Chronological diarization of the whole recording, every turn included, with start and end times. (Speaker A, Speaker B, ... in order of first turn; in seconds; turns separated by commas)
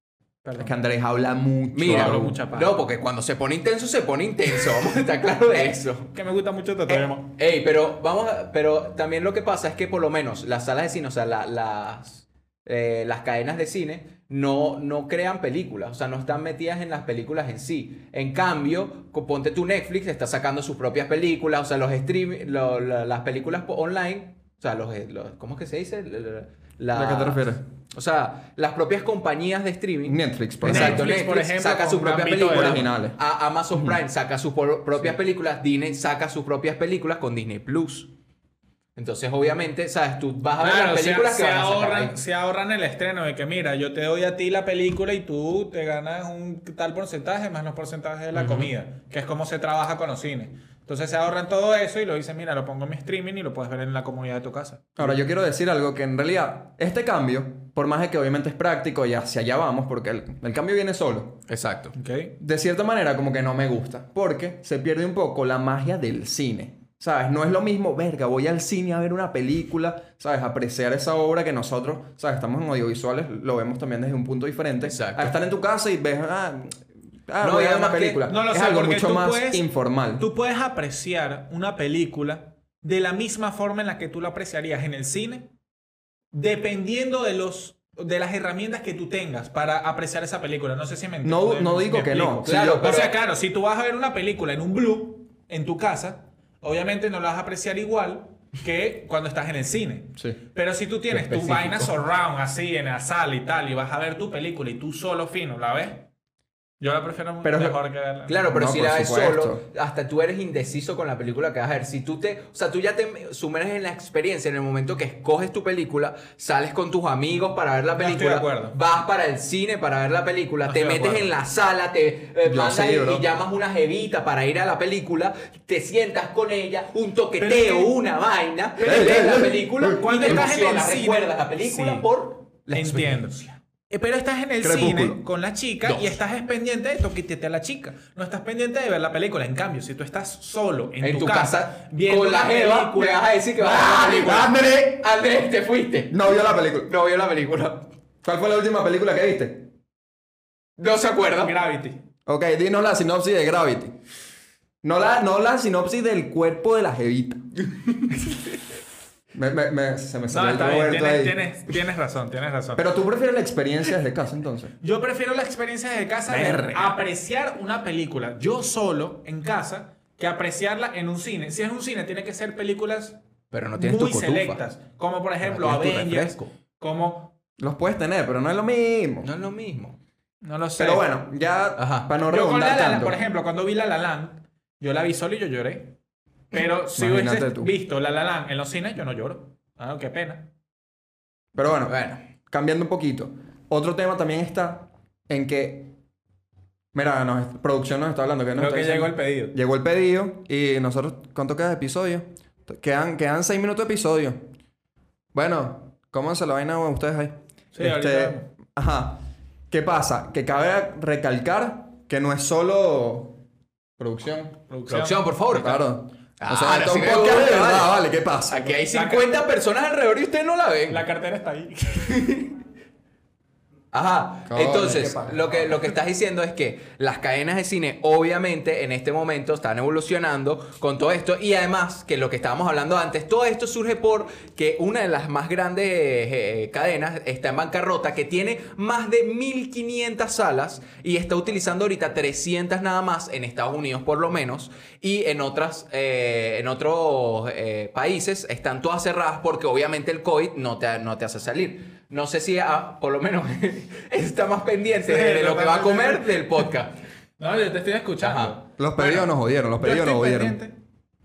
Speaker A: 0.5-0.8, Speaker B: 0.6-2.4, Speaker C: 1.7-6.1, Speaker A: 1.8-2.8, Speaker A: 5.5-7.3, Speaker C: 7.3-38.1, Speaker B: 26.9-27.6, Speaker B: 30.1-31.1, Speaker A: 30.6-32.9, Speaker B: 32.5-33.2, Speaker B: 33.7-34.0, Speaker C: 39.0-42.2, Speaker A: 40.6-55.2, Speaker C: 48.3-48.7, Speaker B: 55.0-61.4, Speaker C: 61.5-61.9, Speaker A: 62.0-62.4, Speaker B: 62.4-80.3, Speaker C: 74.8-75.3, Speaker C: 77.4-78.3, Speaker A: 78.3-79.7, Speaker A: 80.2-85.5, Speaker A: 86.3-106.1, Speaker B: 91.2-92.8, Speaker C: 92.4-93.2, Speaker C: 101.1-101.9, Speaker A: 106.8-108.5, Speaker B: 107.4-107.8, Speaker C: 108.3-133.6, Speaker B: 108.5-109.6, Speaker A: 118.0-118.8, Speaker A: 120.7-121.3, Speaker B: 122.4-123.3, Speaker A: 127.4-128.0, Speaker A: 128.8-132.1, Speaker B: 128.8-130.5, Speaker A: 132.7-144.3, Speaker B: 134.6-135.2, Speaker C: 135.8-136.2, Speaker C: 141.0-147.9, Speaker B: 143.8-145.1, Speaker B: 146.1-146.9, Speaker B: 148.2-149.7, Speaker C: 150.8-151.6, Speaker A: 151.4-152.0, Speaker B: 152.3-153.9, Speaker B: 154.8-157.4, Speaker B: 159.3-161.4, Speaker A: 160.3-162.8, Speaker B: 162.8-164.7, Speaker A: 164.8-173.2, Speaker C: 166.3-166.8, Speaker B: 166.3-166.8, Speaker C: 173.5-174.6, Speaker A: 173.8-177.3, Speaker C: 175.4-176.5, Speaker B: 177.6-179.3, Speaker C: 179.2-180.0, Speaker A: 180.4-181.1, Speaker B: 180.8-183.2, Speaker C: 181.8-182.1, Speaker A: 182.2-185.9, Speaker A: 186.5-190.5, Speaker B: 186.9-187.8, Speaker B: 191.6-195.9, Speaker C: 191.9-192.2, Speaker B: 196.9-204.4, Speaker A: 198.6-199.6, Speaker B: 205.3-213.4, Speaker A: 207.7-208.5, Speaker B: 214.0-214.6, Speaker A: 214.7-215.3, Speaker C: 214.9-215.8, Speaker B: 215.5-218.8, Speaker C: 216.4-221.1, Speaker A: 218.9-219.4, Speaker A: 220.9-222.4, Speaker C: 223.9-256.9, Speaker B: 224.5-226.0, Speaker A: 255.0-256.7, Speaker A: 257.4-260.7, Speaker C: 258.2-258.6, Speaker B: 258.8-260.6